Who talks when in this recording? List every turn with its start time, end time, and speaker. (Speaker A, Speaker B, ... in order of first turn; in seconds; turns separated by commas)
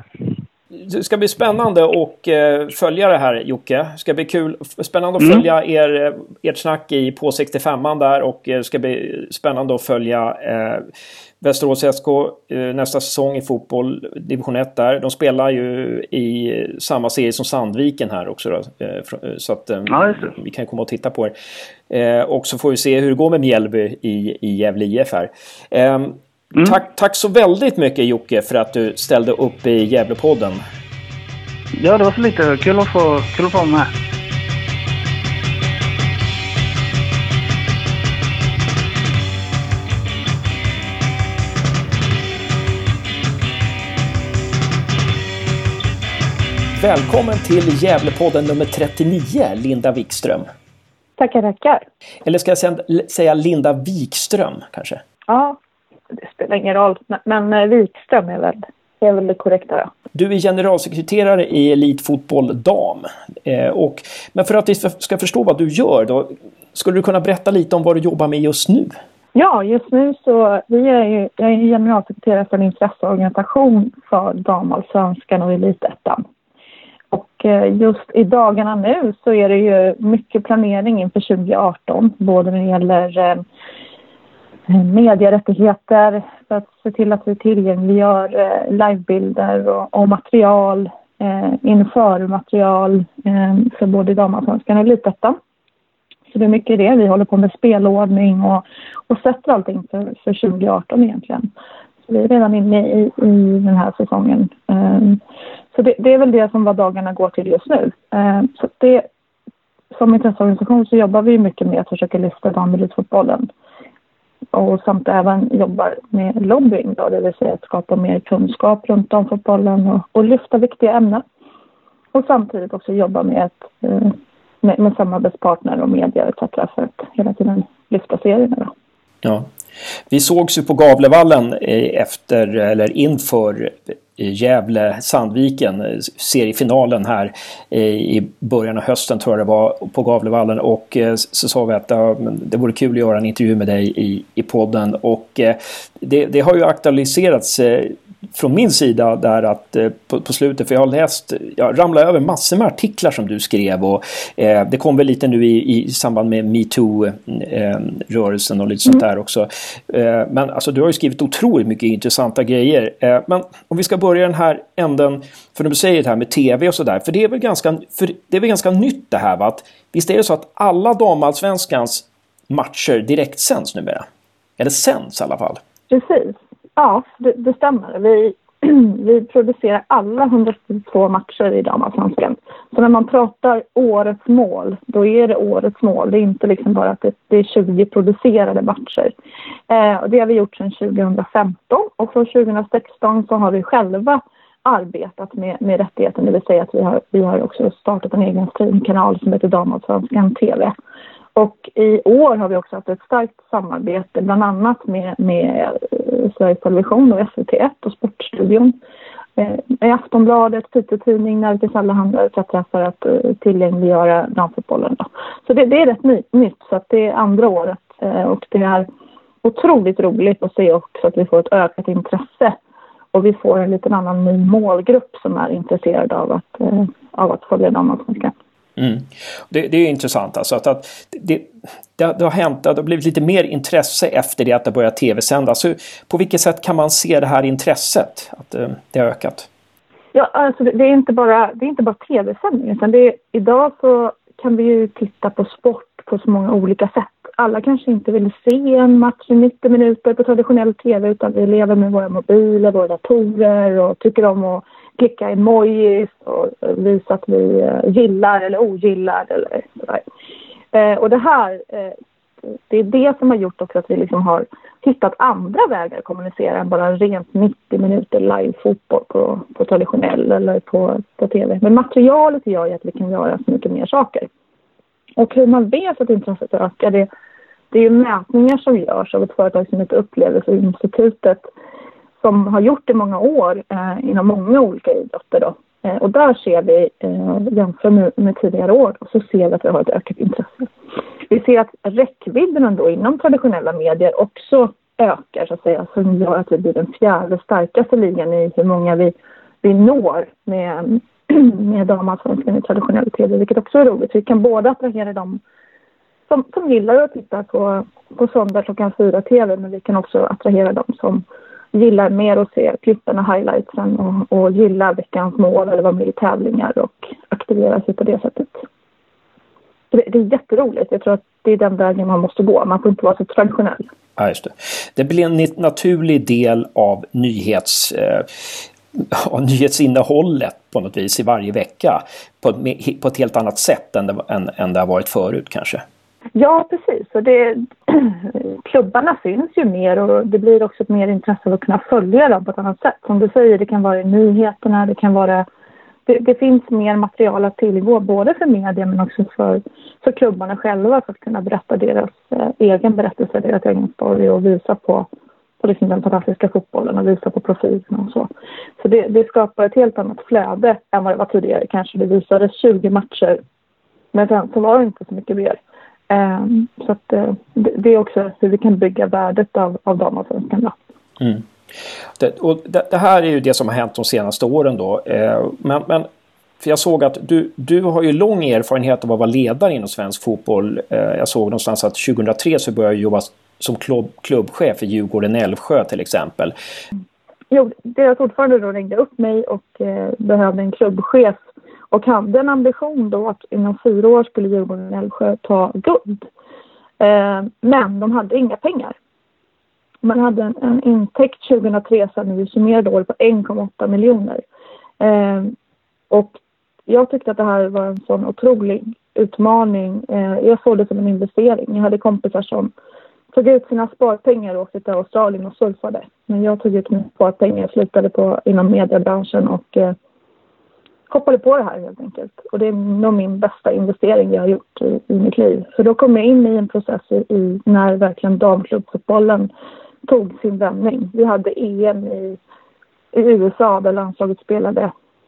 Speaker A: 0.7-10.9, Speaker B: 5.2-5.4, Speaker A: 11.4-21.3, Speaker B: 19.9-20.3, Speaker A: 21.9-30.6, Speaker B: 31.8-33.9, Speaker A: 46.8-50.5, Speaker C: 51.2-51.8, Speaker A: 52.2-55.0, Speaker C: 55.3-55.6, Speaker C: 56.2-59.9, Speaker A: 60.1-69.0, Speaker C: 69.3-76.2, Speaker C: 77.1-83.4, Speaker C: 84.7-95.4, Speaker C: 96.3-101.5, Speaker C: 102.1-105.2, Speaker C: 105.7-109.0, Speaker C: 109.9-113.5, Speaker C: 114.5-121.2, Speaker C: 122.1-128.7, Speaker A: 129.2-129.5, Speaker A: 130.1-174.1, Speaker A: 174.6-175.6, Speaker C: 175.9-189.1, Speaker C: 189.7-200.7, Speaker C: 201.3-208.7, Speaker C: 209.4-218.9, Speaker C: 219.4-222.5, Speaker C: 223.1-228.3, Speaker A: 228.8-239.5, Speaker C: 240.1-260.0, Speaker C: 260.7-261.9, Speaker C: 262.7-274.3, Speaker C: 275.2-277.1, Speaker C: 277.7-281.4, Speaker C: 282.2-290.7, Speaker C: 291.3-305.4, Speaker C: 306.3-318.6, Speaker C: 319.9-323.8, Speaker A: 324.2-335.8, Speaker C: 336.3-345.4, Speaker C: 346.1-355.1, Speaker C: 355.6-363.4, Speaker C: 364.1-365.6, Speaker C: 366.1-370.7, Speaker A: 371.2-371.5, Speaker A: 372.2-376.1, Speaker A: 376.6-386.5, Speaker C: 387.5-391.4, Speaker C: 391.9-396.3, Speaker C: 397.0-398.9, Speaker C: 400.0-404.4, Speaker C: 405.0-405.5, Speaker C: 406.1-412.7, Speaker C: 413.3-419.9, Speaker C: 421.1-429.5, Speaker C: 430.1-432.4, Speaker C: 433.1-434.9